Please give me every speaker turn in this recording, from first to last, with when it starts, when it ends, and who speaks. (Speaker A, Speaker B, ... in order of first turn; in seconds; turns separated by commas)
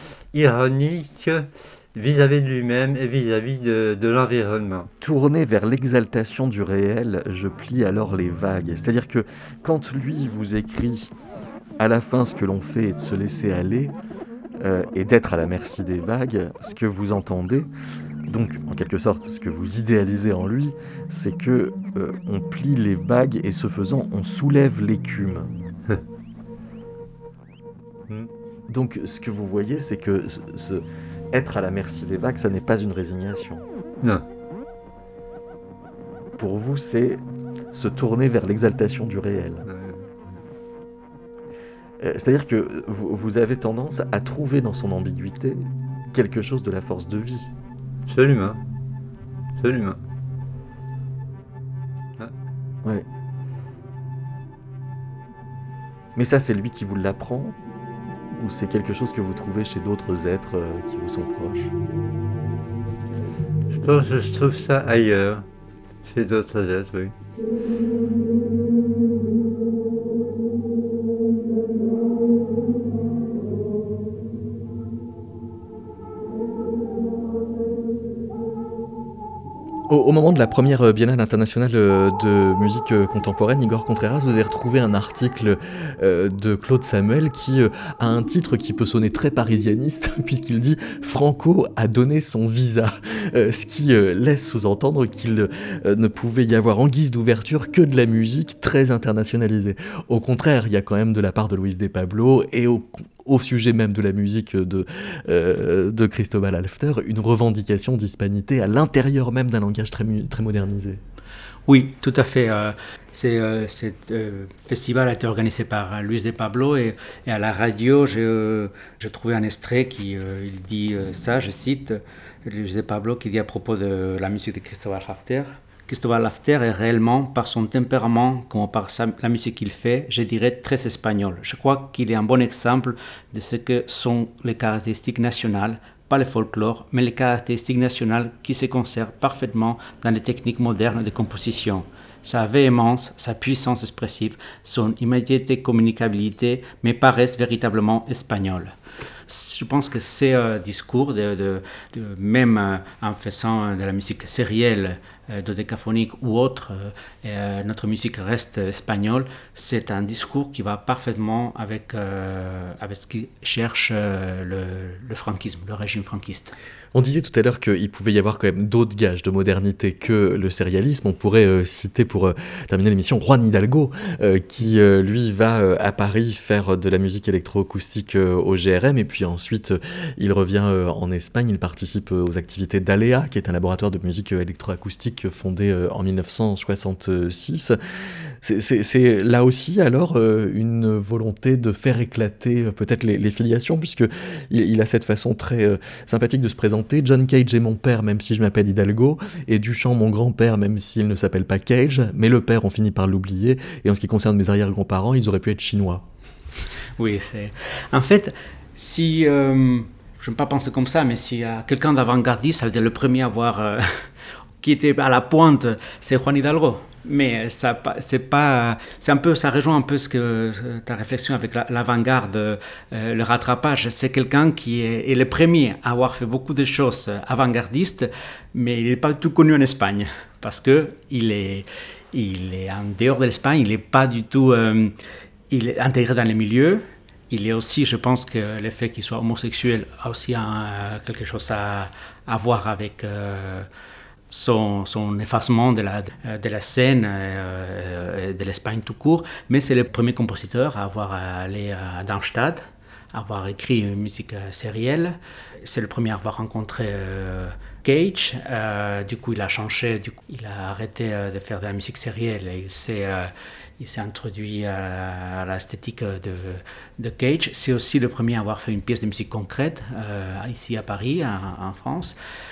Speaker A: 0.3-4.9, Speaker B: 5.0-11.1, Speaker B: 11.8-13.9, Speaker B: 14.6-17.7, Speaker B: 18.3-25.5, Speaker B: 28.7-33.6, Speaker B: 36.4-39.6, Speaker A: 39.6-40.1, Speaker B: 42.0-47.5, Speaker A: 48.1-48.6, Speaker A: 49.6-50.0, Speaker B: 56.1-57.6, Speaker B: 58.3-61.7, Speaker A: 63.7-65.5, Speaker A: 66.0-67.1, Speaker B: 79.9-111.0, Speaker C: 111.7-148.7, Speaker C: 149.3-166.5, Speaker B: 166.9-187.8, Speaker B: 188.4-206.1, Speaker C: 207.0-214.1, Speaker C: 214.6-234.9, Speaker C: 235.5-243.7, Speaker C: 244.3-272.1